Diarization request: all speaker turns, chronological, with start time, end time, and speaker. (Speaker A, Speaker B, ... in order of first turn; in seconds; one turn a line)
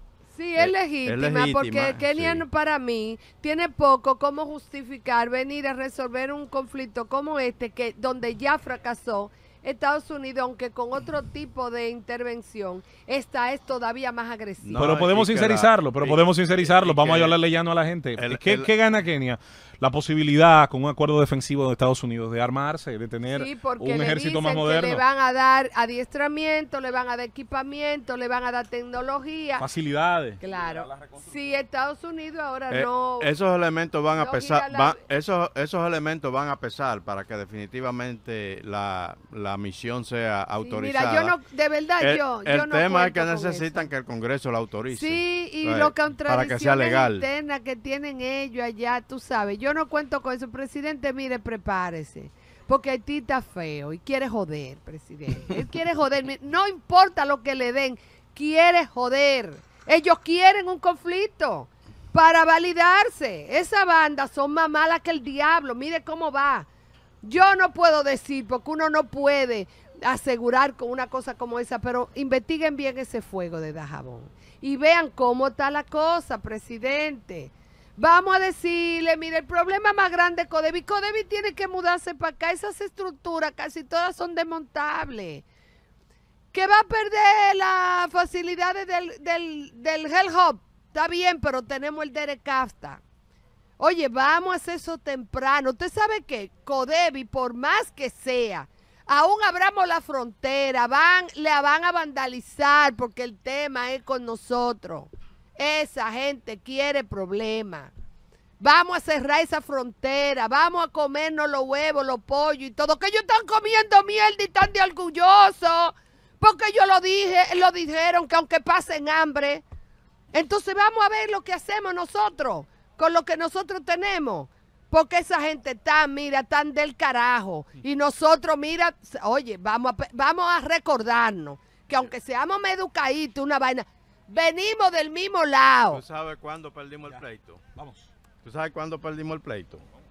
Speaker A: 0.3-14.8
Speaker B: 0.6-2.4
Speaker B: 14.6-17.4
Speaker C: 14.7-25.0
Speaker B: 18.1-18.7
Speaker A: 23.3-29.7
Speaker C: 29.6-30.4
Speaker A: 30.4-33.3
Speaker B: 32.7-41.4
Speaker A: 34.1-35.0
Speaker A: 40.6-43.9
Speaker B: 42.0-47.3
Speaker A: 44.9-66.7
Speaker A: 67.2-85.4
Speaker A: 86.5-93.0
Speaker A: 93.8-107.9
Speaker A: 108.6-119.6
Speaker A: 120.3-136.0
Speaker B: 135.9-137.6
Speaker B: 138.4-139.8